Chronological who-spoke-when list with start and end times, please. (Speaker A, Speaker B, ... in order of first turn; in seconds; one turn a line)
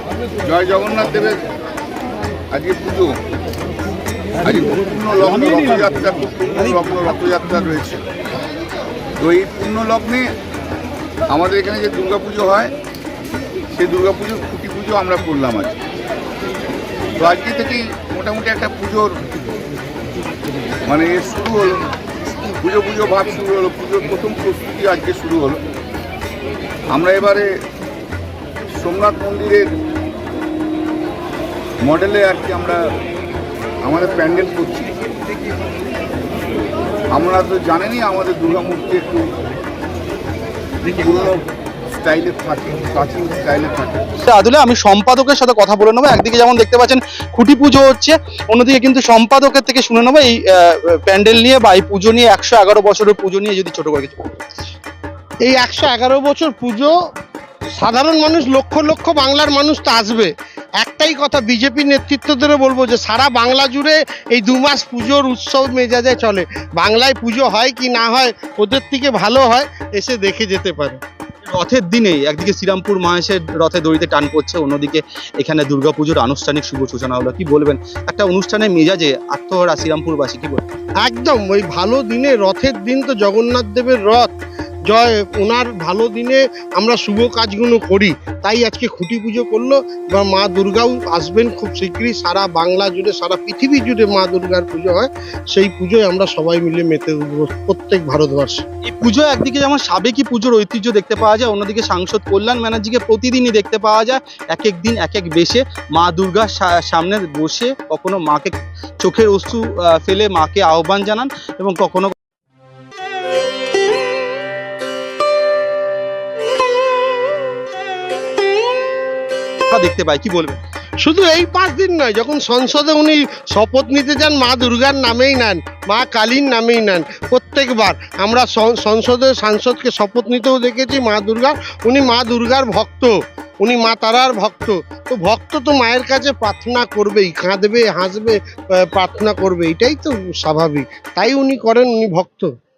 Speaker A: 0.5-1.4
Speaker A: 2.5-3.1
Speaker A: 4.4-8.0
Speaker A: 9.2-10.2
Speaker A: 11.3-12.7
Speaker A: 13.7-15.8
Speaker A: 17.2-19.1
Speaker A: 20.9-21.8
Speaker A: 22.6-25.6
Speaker A: 26.9-27.5
Speaker A: 28.7-29.7
Speaker A: 31.8-32.8
Speaker A: 33.8-34.9
Speaker A: 37.1-39.2
Speaker A: 40.8-44.0
Speaker B: 44.3-54.2
Speaker C: 55.5-56.9
Speaker C: 57.8-71.0
Speaker B: 71.5-80.7
Speaker C: 81.0-84.3
Speaker C: 84.9-98.6
Speaker B: 98.9-112.1
Speaker B: 119.7-120.6
Speaker C: 121.0-142.5